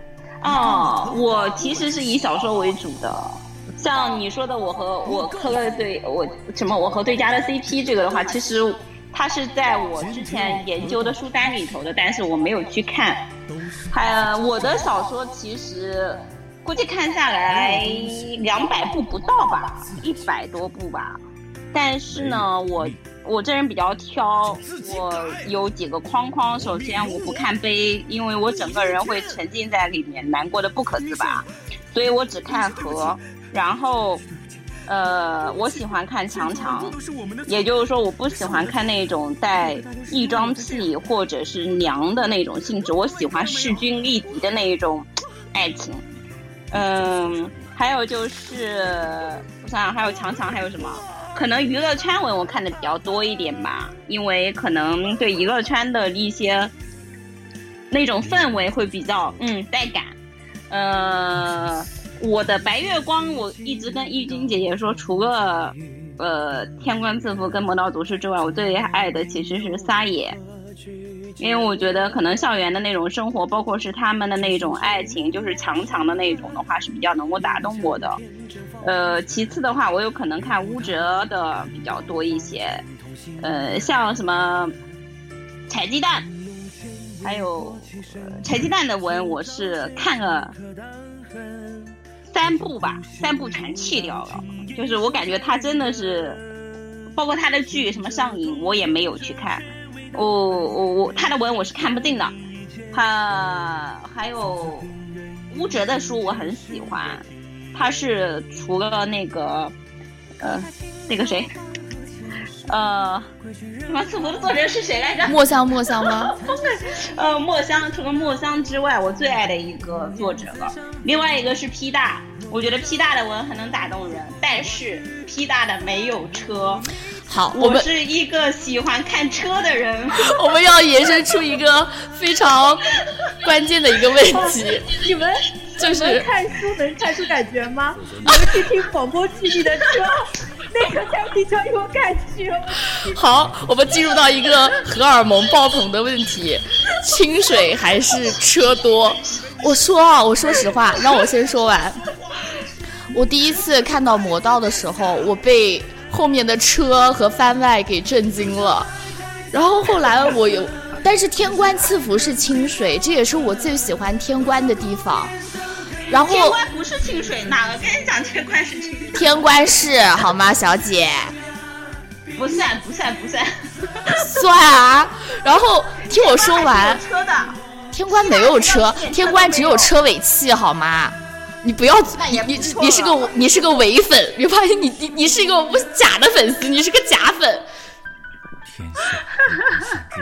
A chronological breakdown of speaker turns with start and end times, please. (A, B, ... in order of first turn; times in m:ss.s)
0:00.4-0:13.3 A
0:13.9-0:21.2 A
0:21.7-0:34.2 A
0:34.9-0:46.0 A
0:46.7-0:56.7 A
0:57.9-1:00.2 A
1:00.7-1:10.4 A
1:11.4-1:18.2 A
1:18.8-1:22.8 A
1:23.4-1:24.8 A
1:25.7-1:26.3 A
1:27.2-1:30.6 A
1:32.3-1:36.4 A
1:37.2-1:42.4 A
1:42.9-1:44.9 A
1:45.5-1:49.7 A
1:50.4-1:51.6 A
1:52.6-1:53.3 A
1:53.9-1:55.4 A
1:55.2-1:56.4 B
1:56.1-2:06.9 A
2:07.3-2:07.9 B
2:07.5-2:10.4 A
2:10.2-2:15.0 B
2:14.9-2:22.8 C
2:15.8-2:16.3 B
2:18.2-2:18.5 B
2:22.9-2:32.0 B
2:33.1-2:38.9 B
2:39.5-2:45.4 B
2:46.1-2:46.6 B
2:46.3-2:49.2 A
2:49.1-2:51.4 B
2:52.3-2:54.2 A
2:54.1-2:57.0 B
2:56.1-2:57.6 A
2:57.9-3:07.7 B
2:58.2-2:59.9 A
3:02.2-3:03.3 A